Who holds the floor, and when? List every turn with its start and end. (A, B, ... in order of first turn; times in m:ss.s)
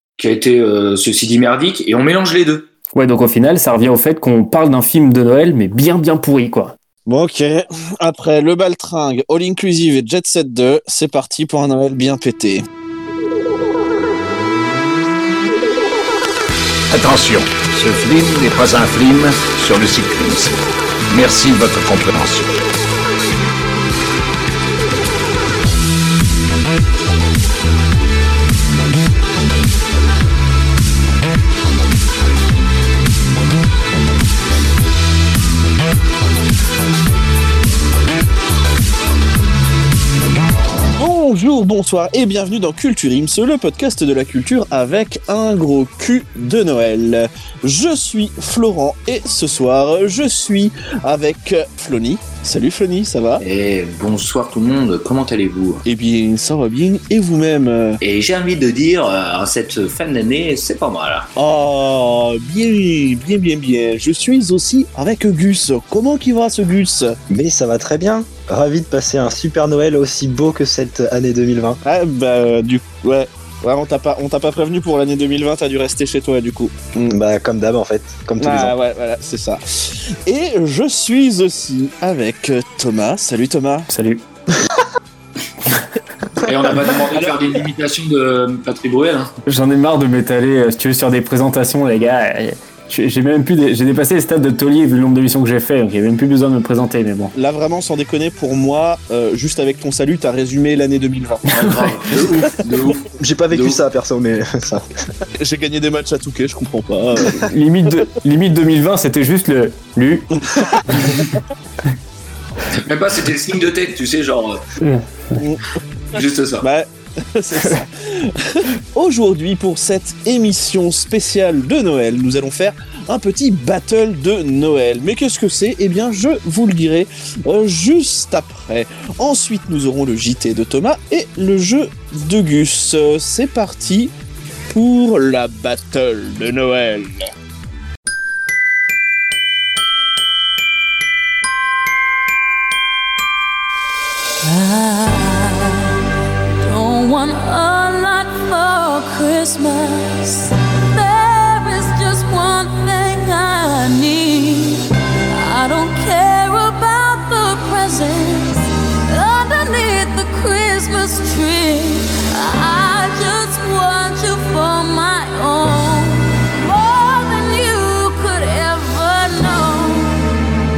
0:00.2-0:02.7 A
0:02.9-0:06.8 B
0:07.1-0:12.7 C
0:16.9-0:20.6 D
0:21.1-0:22.6 D
0:41.0-0:53.4 C
0:53.4-0:55.8 A
0:55.9-0:58.0 C
0:58.0-1:01.3 A
1:01.4-1:07.2 C
1:07.3-1:11.8 E
1:11.8-1:17.2 C
1:17.1-1:18.8 E
1:18.4-1:23.9 C
1:23.9-1:24.2 B
1:26.4-1:29.3 A
1:27.1-1:27.4 C
1:29.5-1:37.3 B
1:37.3-1:41.5 C
1:41.5-1:43.8 A
1:43.2-1:44.9 E
1:45.4-1:47.5 C
1:47.4-1:50.3 B
1:50.5-1:51.3 C
1:50.9-1:51.2 B
1:52.8-1:54.6 A
1:54.8-1:55.4 B
1:55.4-2:14.1 C
1:56.1-1:56.7 A
2:14.7-2:17.3 C
2:24.4-2:26.0 F
2:26.6-2:50.2 F